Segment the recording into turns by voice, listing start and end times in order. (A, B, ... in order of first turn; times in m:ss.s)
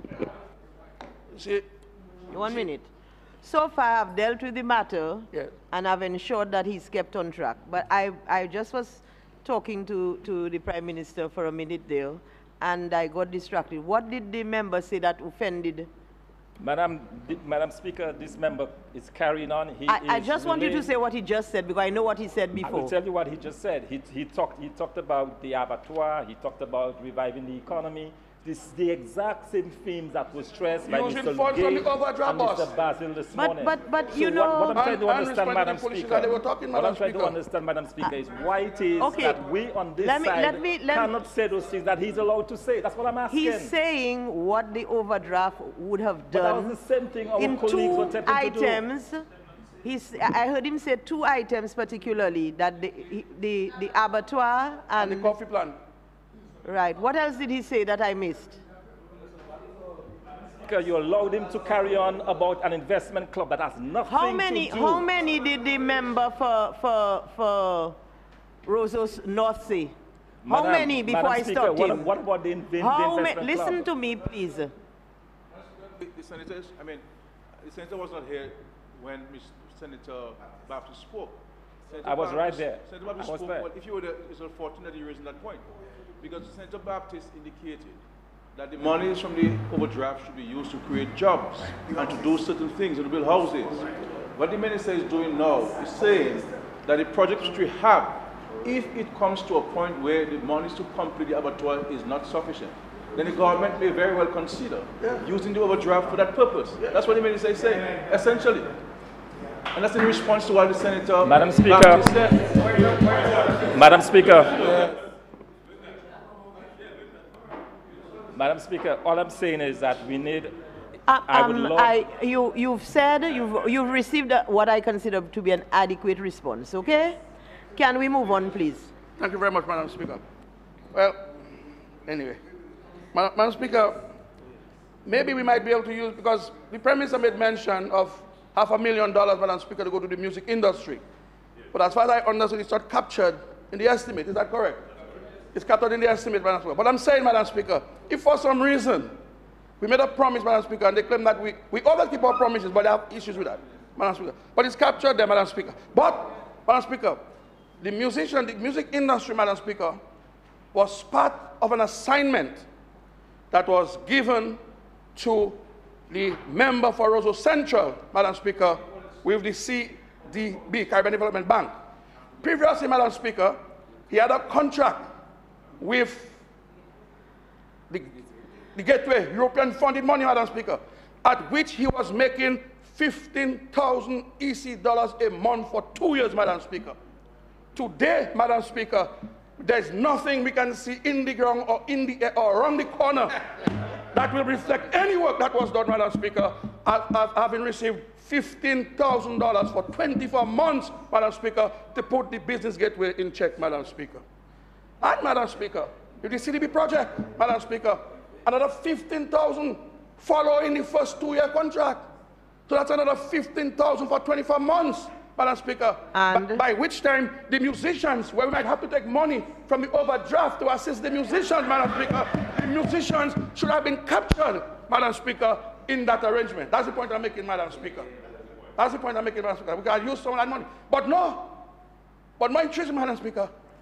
0:01.3-0:01.6 A
0:02.3-0:02.9 B
0:03.4-0:15.9 B
0:16.6-0:20.9 C
0:19.9-0:22.9 B
0:22.6-0:43.7 C
0:30.8-0:32.7 A
0:33.3-0:34.8 B
0:34.7-0:37.4 A
0:39.0-0:39.4 B
0:40.0-0:41.1 B
0:43.3-0:46.8 B
0:46.3-0:48.8 C
0:47.4-0:49.2 B
0:49.8-0:55.3 B
0:55.0-0:55.8 A
0:56.6-0:58.6 B
1:00.6-1:05.0 C
1:04.1-1:08.0 B
1:08.6-1:09.9 B
1:10.4-1:13.9 C
1:10.5-1:12.1 B
1:12.8-1:14.7 B
1:15.8-1:17.0 D
1:17.6-1:25.7 D
1:22.0-1:23.7 C
1:26.2-1:28.0 D
1:28.5-1:48.7 D
1:49.7-1:53.0 D
1:51.2-1:52.1 C
1:53.5-1:54.9 C
1:58.3-2:00.5 C
2:01.1-2:07.2 B
2:01.3-2:01.9 C
2:07.8-2:08.9 B
2:09.2-2:10.2 A
2:10.9-2:11.3 A
2:12.0-2:12.4 A
2:13.1-2:14.0 A
2:15.0-2:21.0 A
2:21.7-2:24.8 A
2:25.5-2:29.1 A
2:29.8-2:37.3 A
2:37.8-2:40.0 A
2:40.7-2:42.6 A
2:43.5-2:44.6 A
2:45.1-2:51.7 A
2:52.4-2:53.6 A
2:54.1-2:55.1 A
2:55.8-2:56.4 A
2:57.9-2:58.2 A
2:58.7-3:07.0 A
3:07.7-3:24.2 A
3:25.0-3:32.0 A
3:32.7-3:48.1 A
3:36.1-3:36.6 B
3:48.8-3:51.6 A
3:52.4-3:53.5 A